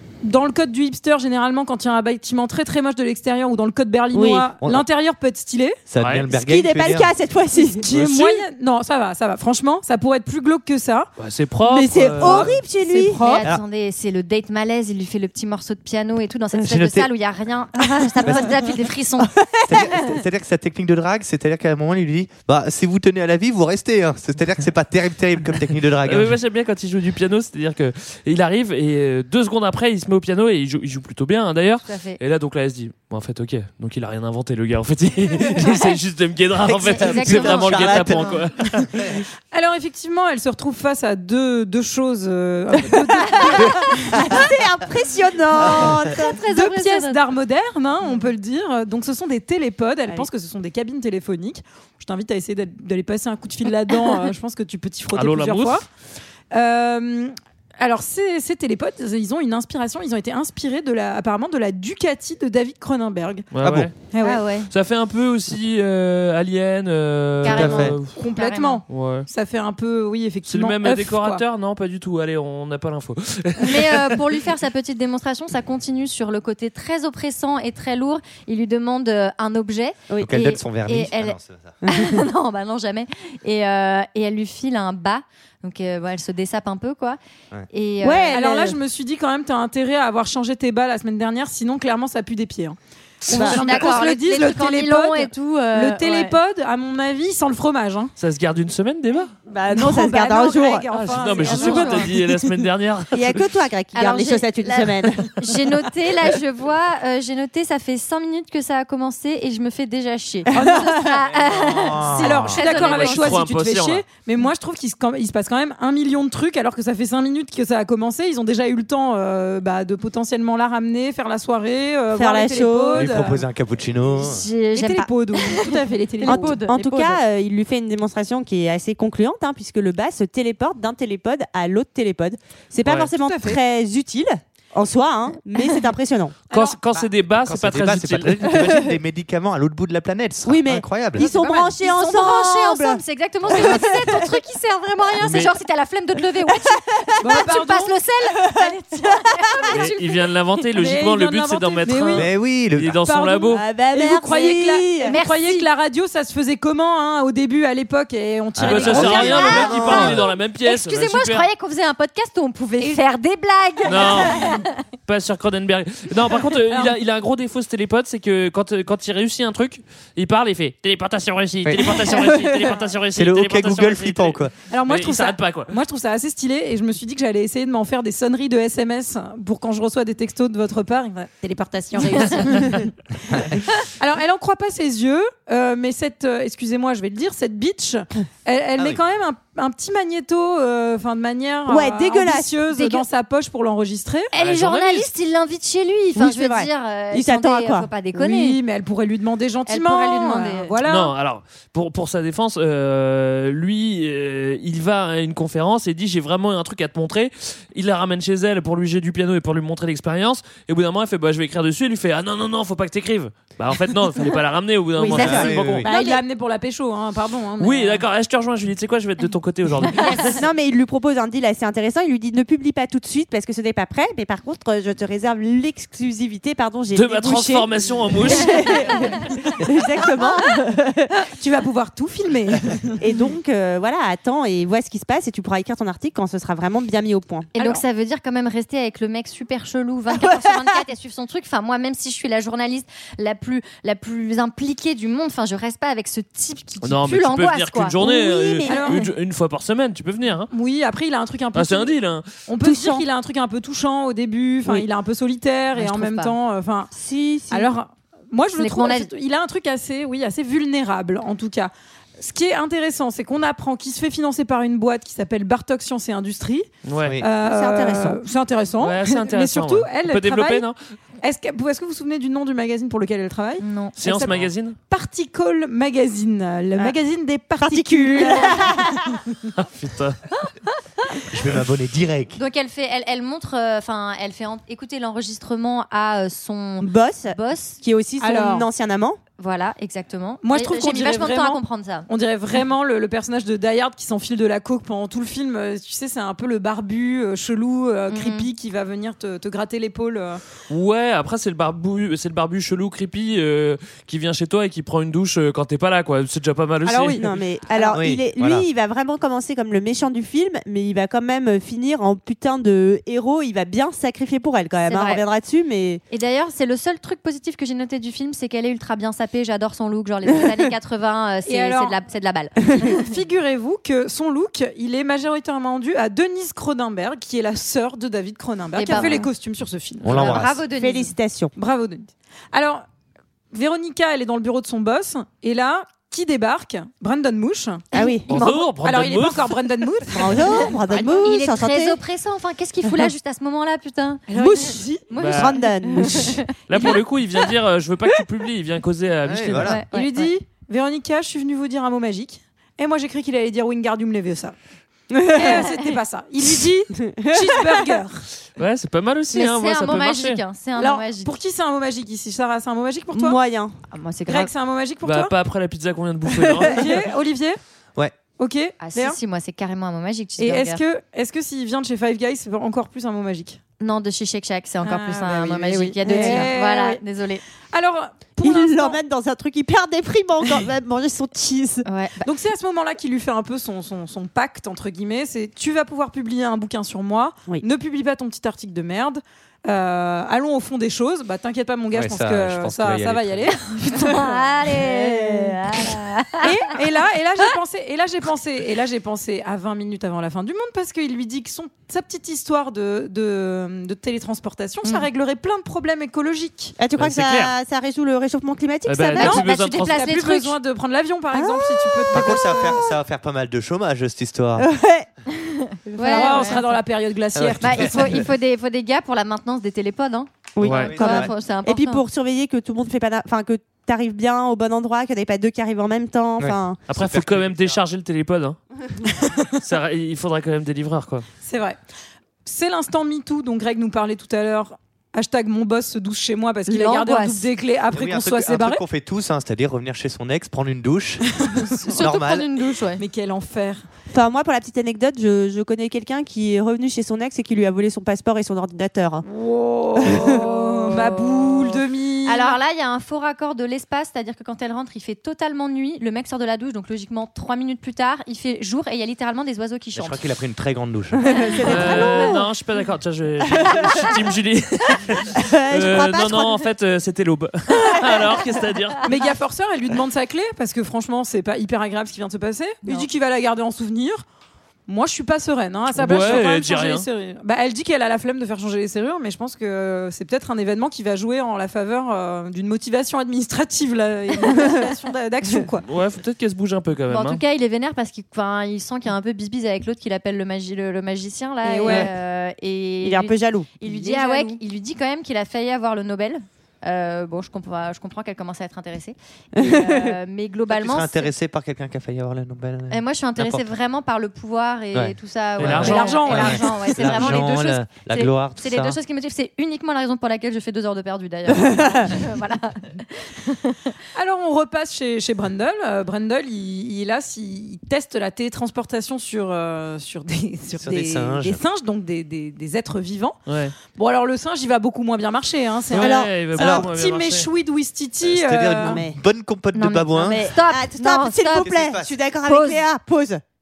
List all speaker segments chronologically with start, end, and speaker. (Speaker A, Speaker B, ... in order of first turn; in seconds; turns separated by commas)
Speaker A: 0.2-5.8, Speaker B: 4.1-4.5, Speaker C: 5.9-7.1, Speaker D: 6.0-6.3, Speaker B: 6.3-7.8, Speaker A: 7.5-11.1, Speaker D: 11.2-12.5, Speaker B: 11.7-13.2, Speaker A: 12.2-13.4, Speaker E: 13.2-19.8, Speaker C: 16.5-17.1, Speaker B: 17.9-18.5, Speaker C: 18.2-18.6, Speaker B: 19.2-19.9, Speaker C: 19.7-26.4, Speaker D: 26.0-39.2, Speaker E: 31.8-32.2, Speaker C: 36.6-39.2, Speaker E: 36.8-38.4, Speaker A: 39.5-44.0, Speaker B: 43.3-46.4, Speaker C: 45.6-46.0, Speaker E: 45.7-47.2, Speaker A: 46.5-55.9, Speaker D: 55.1-55.8, Speaker A: 56.5-63.5, Speaker D: 63.5-63.9, Speaker C: 63.6-63.9, Speaker A: 64.1-64.4, Speaker E: 64.2-64.7, Speaker D: 64.7-68.1, Speaker E: 67.4-68.8, Speaker C: 67.4-67.9, Speaker A: 68.1-71.4, Speaker D: 68.9-69.3, Speaker D: 70.5-74.4, Speaker E: 73.6-87.2, Speaker C: 80.2-81.8, Speaker B: 81.8-82.2, Speaker E: 87.7-88.4, Speaker B: 88.0-88.8, Speaker A: 88.3-98.1, Speaker E: 93.3-96.4, Speaker B: 93.3-93.6, Speaker D: 98.2-99.3, Speaker B: 99.5-100.9, Speaker A: 99.7-102.1, Speaker D: 100.9-103.4, Speaker E: 101.3-102.1, Speaker B: 103.1-105.4, Speaker E: 103.9-113.4, Speaker A: 110.5-111.0, Speaker B: 110.5-111.2, Speaker C: 111.3-112.6, Speaker A: 112.1-123.4, Speaker D: 112.6-114.0, Speaker B: 122.1-123.2, Speaker C: 122.9-124.4, Speaker E: 124.2-127.2, Speaker A: 124.7-126.6, Speaker B: 126.2-136.4, Speaker D: 132.8-133.1, Speaker A: 133.2-133.6, Speaker A: 136.5-136.8, Speaker D: 136.5-138.5, Speaker C: 137.4-141.3, Speaker B: 138.5-138.9, Speaker B: 140.4-144.3, Speaker E: 141.2-150.2, Speaker A: 141.2-141.6, Speaker D: 145.2-145.5, Speaker B: 146.4-147.5, Speaker A: 147.2-147.9, Speaker B: 148.5-149.7, Speaker D: 149.7-153.6, Speaker A: 150.7-152.3, Speaker C: 152.1-153.0, Speaker A: 153.0-159.8, Speaker B: 153.5-155.1, Speaker E: 155.0-155.7, Speaker C: 158.6-160.1, Speaker D: 158.6-161.5, Speaker E: 159.0-164.8, Speaker B: 159.7-160.1, Speaker D: 163.8-175.7, Speaker C: 171.6-172.2, Speaker C: 173.1-174.5, Speaker A: 174.7-182.9, Speaker E: 182.2-182.5, Speaker A: 183.8-194.3, Speaker B: 191.7-192.6, Speaker E: 192.7-193.0, Speaker E: 194.3-198.6, Speaker D: 194.3-195.1, Speaker B: 196.1-197.9, Speaker A: 198.1-201.1, Speaker E: 199.7-200.8, Speaker D: 200.8-215.8, Speaker B: 215.0-215.5, Speaker C: 215.1-215.9, Speaker A: 215.8-218.0, Speaker E: 215.9-216.2, Speaker D: 217.6-220.4, Speaker E: 219.9-220.4, Speaker B: 220.3-227.7, Speaker D: 226.9-228.9, Speaker B: 228.2-231.1, Speaker E: 228.5-229.0, Speaker A: 231.2-233.0, Speaker B: 233.0-237.5, Speaker E: 237.5-247.9, Speaker A: 237.6-237.8, Speaker B: 240.2-240.8, Speaker D: 246.8-250.5, Speaker B: 248.0-249.0, Speaker A: 248.7-249.1, Speaker A: 250.5-256.9, Speaker D: 251.5-252.3, Speaker B: 252.6-253.1, Speaker E: 255.8-256.3, Speaker B: 256.9-257.7, Speaker A: 257.5-266.7, Speaker E: 258.6-259.1, Speaker D: 266.8-267.2, Speaker A: 267.2-270.6, Speaker B: 267.4-268.2, Speaker D: 268.8-270.8, Speaker A: 271.2-278.9, Speaker E: 273.6-274.0, Speaker D: 274.0-274.8, Speaker B: 277.6-279.2, Speaker D: 279.5-280.2, Speaker C: 281.3-282.4, Speaker E: 282.3-287.8, Speaker B: 286.8-289.2, Speaker A: 288.2-288.7, Speaker E: 289.4-292.1, Speaker A: 290.4-300.4, Speaker E: 298.1-298.5, Speaker D: 300.7-307.2, Speaker B: 306.9-316.0, Speaker C: 307.9-308.6, Speaker E: 314.9-315.2, Speaker E: 316.1-323.0, Speaker A: 321.4-321.9, Speaker A: 322.9-330.4, Speaker E: 328.7-329.3, Speaker C: 330.0-330.6, Speaker E: 330.1-331.1, Speaker B: 330.6-331.5, Speaker A: 331.6-332.8, Speaker A: 333.5-337.9, Speaker B: 337.9-338.3, Speaker E: 338.0-338.5, Speaker D: 338.3-339.6, Speaker A: 338.8-340.7, Speaker B: 340.1-342.0, Speaker E: 340.5-346.9, Speaker A: 344.3-345.1, Speaker D: 345.2-345.6, Speaker B: 345.3-346.4, Speaker D: 346.7-349.8, Speaker C: 349.2-349.8, Speaker E: 349.6-350.3, Speaker A: 349.9-354.5, Speaker B: 355.1-355.6, Speaker A: 355.3-358.2, Speaker B: 357.0-358.0, Speaker D: 358.6-360.4, Speaker E: 359.3-361.3, Speaker A: 360.8-363.4, Speaker B: 363.1-363.8, Speaker E: 363.9-364.5, Speaker A: 364.3-365.3, Speaker D: 365.0-366.9, Speaker A: 366.6-367.6, Speaker A: 368.4-369.2, Speaker E: 368.8-370.8, Speaker A: 370.4-373.6, Speaker E: 373.8-377.4, Speaker A: 374.8-377.0, Speaker B: 376.0-376.5, Speaker A: 377.7-379.0, Speaker B: 378.4-381.9, Speaker E: 381.8-382.2, Speaker A: 382.2-394.8, Speaker C: 391.9-393.6, Speaker E: 393.9-396.7, Speaker B: 394.8-395.6, Speaker A: 396.4-406.8, Speaker B: 406.8-409.4, Speaker D: 407.0-407.5, Speaker D: 408.9-410.1, Speaker E: 409.2-410.6, Speaker A: 409.2-412.8, Speaker B: 411.3-412.8, Speaker C: 412.1-414.7, Speaker B: 414.6-415.1, Speaker B: 415.9-416.6, Speaker E: 415.9-416.6, Speaker A: 416.0-418.1, Speaker C: 417.3-418.2, Speaker E: 417.6-422.0, Speaker B: 420.5-426.8, Speaker D: 420.6-420.9, Speaker C: 420.6-421.3, Speaker C: 426.4-427.8, Speaker D: 426.9-428.6, Speaker D: 429.5-431.2, Speaker A: 431.4-431.8, Speaker A: 432.4-438.8, Speaker E: 436.7-437.5, Speaker C: 437.9-441.4, Speaker A: 441.4-441.7, Speaker E: 441.7-443.0, Speaker C: 441.9-442.5, Speaker A: 443.0-443.8, Speaker B: 444.1-449.2, Speaker A: 449.2-452.6, Speaker B: 450.0-450.4, Speaker E: 450.9-460.2, Speaker C: 459.9-461.3, Speaker B: 461.2-462.4, Speaker E: 461.3-462.2, Speaker D: 461.6-469.0, Speaker B: 463.4-464.1, Speaker B: 465.3-466.6, Speaker A: 469.0-474.2, Speaker A: 474.9-485.9, Speaker D: 476.0-477.1, Speaker D: 485.9-487.4, Speaker E: 487.1-501.3, Speaker A: 491.6-492.1, Speaker B: 493.0-494.3, Speaker A: 493.9-494.5, Speaker B: 499.6-500.1, Speaker C: 500.7-503.7, Speaker E: 502.9-513.9, Speaker C: 504.9-509.0, Speaker D: 505.6-506.1, Speaker A: 505.8-507.5, Speaker B: 511.6-512.1, Speaker A: 514.1-523.4, Speaker C: 520.7-521.6, Speaker D: 523.5-523.7, Speaker A: 523.9-529.0, Speaker D: 525.9-527.5, Speaker B: 526.0-526.3, Speaker C: 526.5-526.9, Speaker C: 528.2-530.5, Speaker B: 528.8-529.2, Speaker E: 529.7-531.7, Speaker B: 530.2-533.4, Speaker C: 531.6-532.1, Speaker E: 532.4-532.8